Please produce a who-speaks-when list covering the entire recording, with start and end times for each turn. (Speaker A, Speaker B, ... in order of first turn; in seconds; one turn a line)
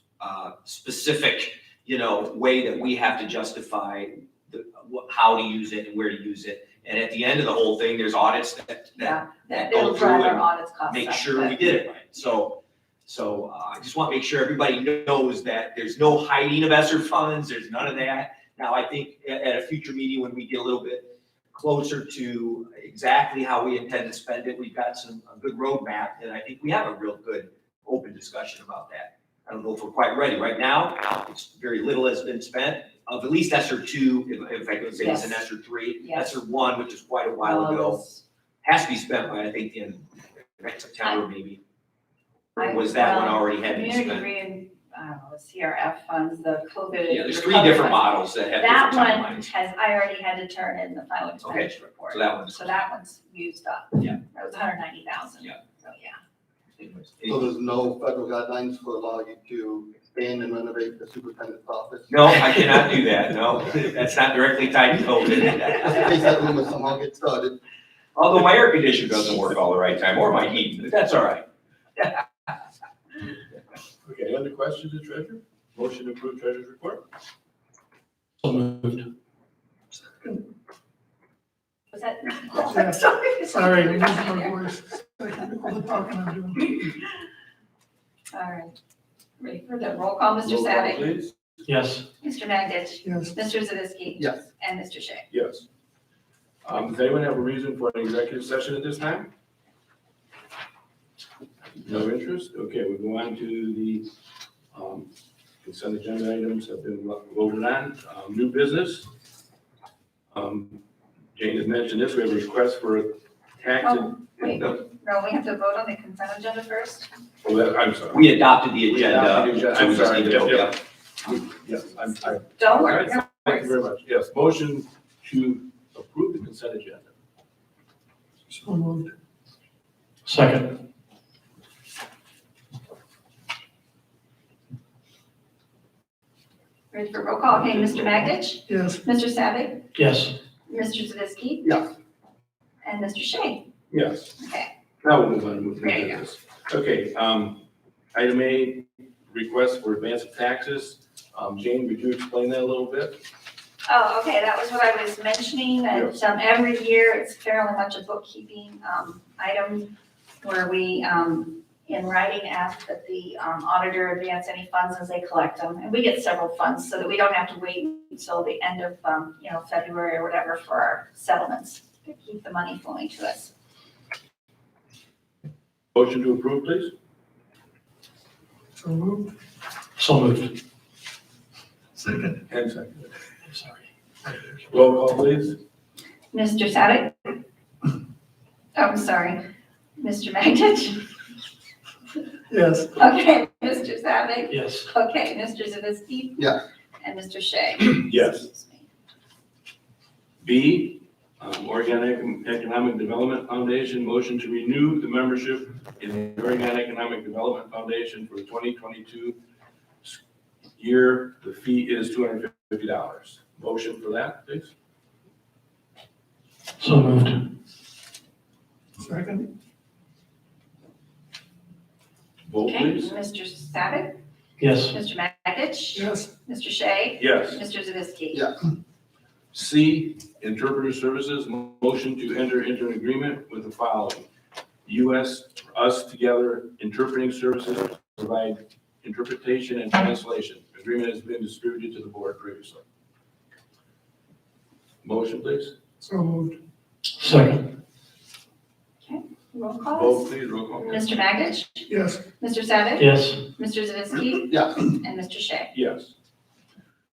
Speaker A: 0.2-38.0
Speaker B: 8.9-11.7
Speaker B: 35.0-35.5
Speaker B: 36.0-36.4
Speaker B: 37.4-38.2
Speaker A: 38.6-40.0
Speaker A: 40.6-41.6
Speaker A: 42.6-44.3
Speaker B: 42.6-56.2
Speaker A: 47.1-49.5
Speaker A: 51.4-52.7
Speaker A: 56.8-57.5
Speaker C: 57.2-62.2
Speaker A: 62.1-66.2
Speaker C: 65.9-67.6
Speaker A: 68.2-71.4
Speaker D: 74.0-77.0
Speaker E: 78.4-79.1
Speaker B: 81.9-84.7
Speaker F: 82.7-86.9
Speaker B: 88.3-88.8
Speaker B: 89.4-91.1
Speaker D: 90.4-91.3
Speaker E: 91.7-92.0
Speaker B: 92.2-95.2
Speaker F: 93.0-93.3
Speaker D: 95.3-95.6
Speaker D: 96.6-99.3
Speaker D: 101.8-104.1
Speaker D: 104.7-105.1
Speaker D: 105.6-109.1
Speaker D: 110.3-110.8
Speaker D: 111.3-114.6
Speaker B: 113.8-117.1
Speaker D: 117.4-118.2
Speaker A: 118.1-120.8
Speaker D: 118.9-127.1
Speaker B: 122.5-123.8
Speaker F: 128.5-129.1
Speaker E: 130.2-130.8
Speaker B: 136.9-139.9
Speaker F: 138.7-139.0
Speaker E: 139.9-140.3
Speaker B: 140.7-141.8
Speaker B: 142.8-143.7
Speaker D: 143.9-144.4
Speaker B: 144.4-144.7
Speaker D: 145.0-147.6
Speaker B: 145.8-146.2
Speaker D: 148.1-153.2
Speaker B: 153.9-173.5
Speaker D: 155.9-156.2
Speaker D: 175.9-176.9
Speaker F: 178.8-179.3
Speaker E: 180.0-180.6
Speaker F: 182.0-182.4
Speaker D: 182.5-183.1
Speaker D: 184.7-185.6
Speaker B: 186.3-187.4
Speaker B: 188.8-189.4
Speaker B: 190.0-191.1
Speaker F: 192.5-192.9
Speaker B: 192.9-198.8
Speaker E: 194.5-194.9
Speaker C: 196.4-196.6
Speaker D: 197.9-198.4
Speaker D: 200.4-209.4
Speaker D: 210.8-214.7
Speaker E: 216.8-217.5
Speaker F: 219.0-219.5
Speaker D: 222.4-223.1
Speaker B: 222.6-224.2
Speaker E: 224.6-224.9
Speaker B: 224.9-228.5
Speaker F: 225.9-226.3
Speaker D: 227.2-227.6
Speaker D: 229.5-234.3
Speaker D: 234.8-242.8
Speaker D: 245.0-245.7
Speaker F: 246.0-246.6
Speaker E: 247.2-247.6
Speaker B: 247.3-247.6
Speaker B: 249.0-255.7
Speaker D: 249.9-251.0
Speaker F: 251.9-252.2
Speaker E: 253.0-253.4
Speaker C: 254.5-254.8
Speaker D: 255.7-256.1